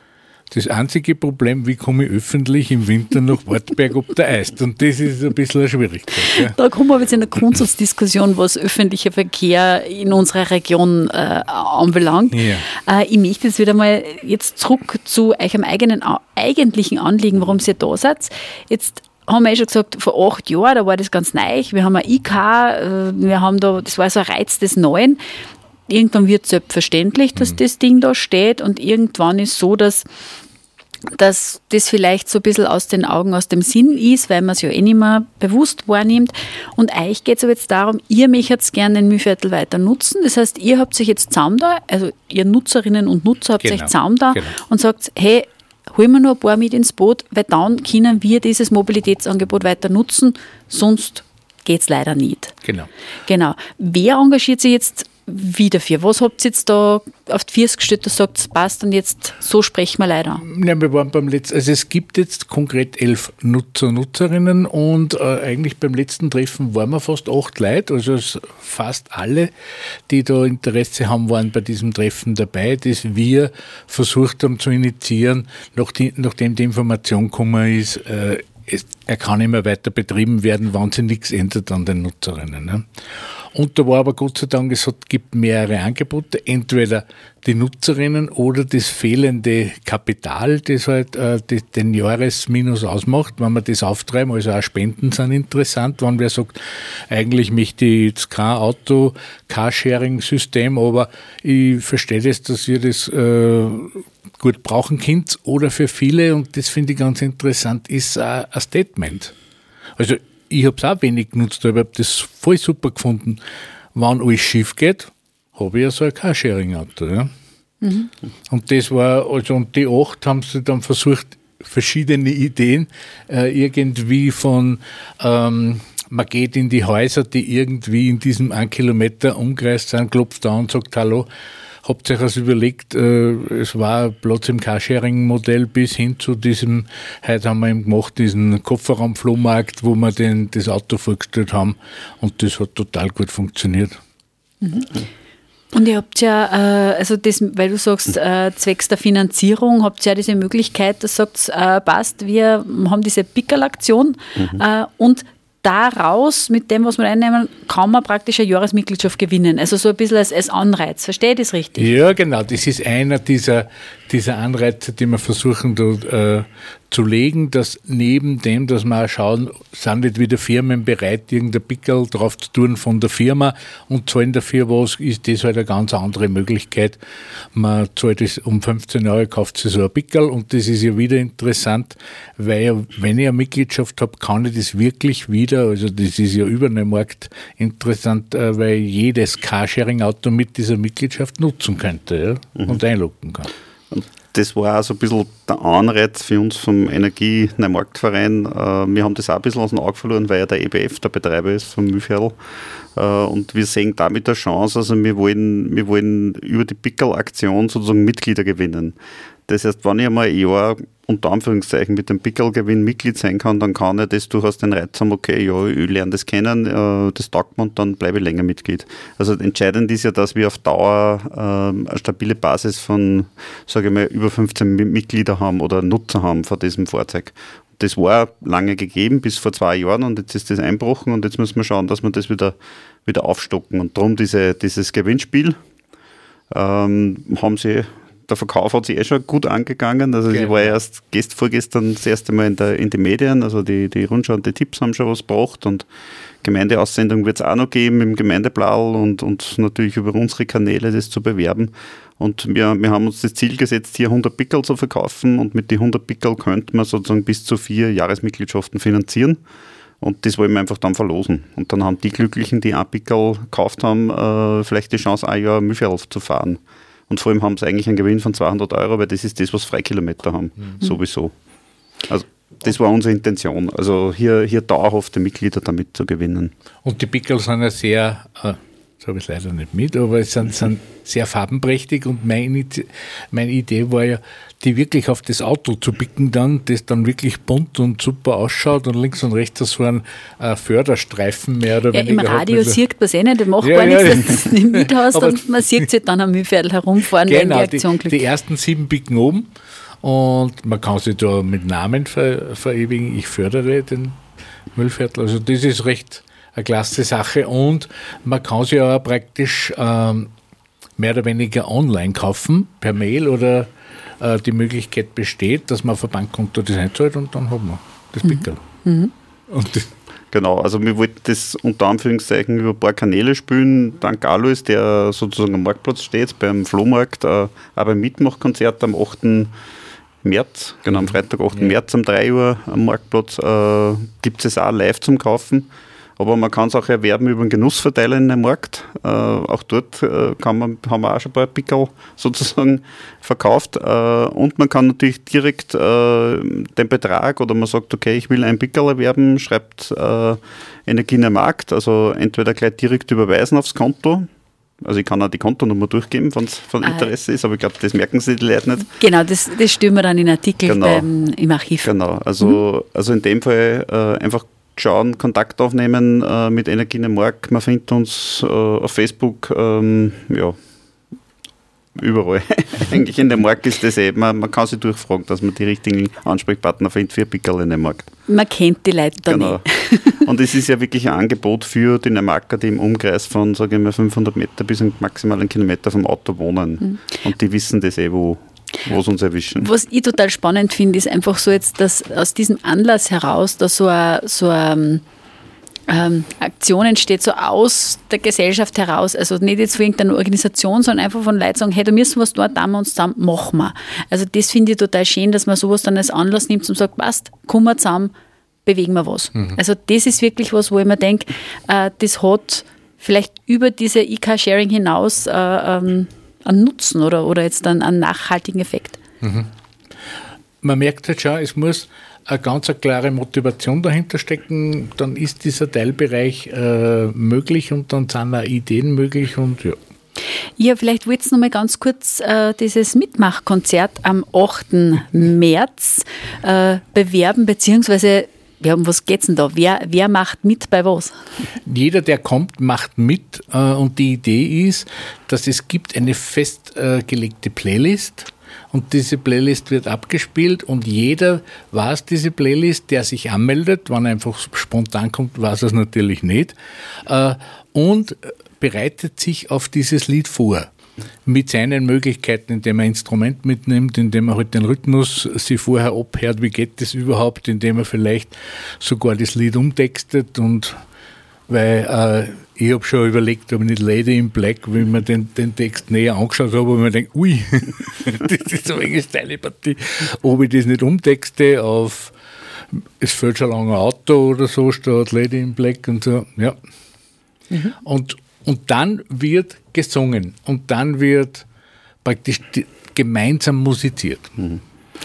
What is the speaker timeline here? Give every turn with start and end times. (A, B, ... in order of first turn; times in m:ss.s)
0:00.5-0:06.5 A
0:06.3-0:25.2 B
0:12.3-0:12.7 A
0:25.9-0:30.0 B
0:31.1-0:52.5 B
0:43.6-0:44.6 A
0:53.2-1:00.4 B
1:00.4-1:09.5 A
1:10.1-1:22.8 A
1:23.5-1:36.6 A
1:37.1-1:49.3 A
1:50.0-1:53.4 A
1:53.9-1:57.3 A
1:57.8-1:58.1 B
1:58.5-2:11.3 A
2:11.8-2:23.9 A
2:24.6-2:25.0 B
2:25.7-2:41.9 B
2:41.8-2:57.0 A
2:57.5-3:13.5 A
3:13.9-3:22.4 C
3:23.0-3:29.0 C
3:29.5-3:55.6 C
3:56.5-4:05.8 C
4:00.3-4:00.7 A
4:06.4-4:19.4 C
4:20.0-4:31.3 C
4:32.1-4:36.5 C
4:36.8-4:52.8 A
4:51.9-4:58.2 B
4:53.6-4:55.5 A
4:57.2-4:59.5 A
5:00.0-5:04.2 A
5:04.7-5:10.3 A
5:11.0-5:13.7 A
5:14.2-5:18.6 A
5:18.2-5:19.1 B
5:19.5-5:19.9 A
5:20.3-5:29.5 C
5:30.2-5:54.2 C
5:54.8-5:58.9 C
5:56.8-5:57.1 B
5:58.8-6:02.6 B
6:00.6-6:01.1 C
6:01.8-6:10.5 C
6:12.0-6:18.0 C
6:18.3-6:20.2 B
6:19.3-6:19.6 C
6:20.2-6:29.7 C
6:29.6-6:35.0 B
6:35.9-6:48.1 B
6:48.6-6:59.0 B
6:59.2-6:59.5 A
7:00.6-7:09.8 A
7:10.6-7:21.1 B
7:21.6-7:36.5 A
7:37.0-7:40.7 A
7:41.2-7:50.7 A
7:51.5-8:02.1 A
8:02.7-8:06.6 A
8:07.8-8:11.4 A
8:12.0-8:14.3 A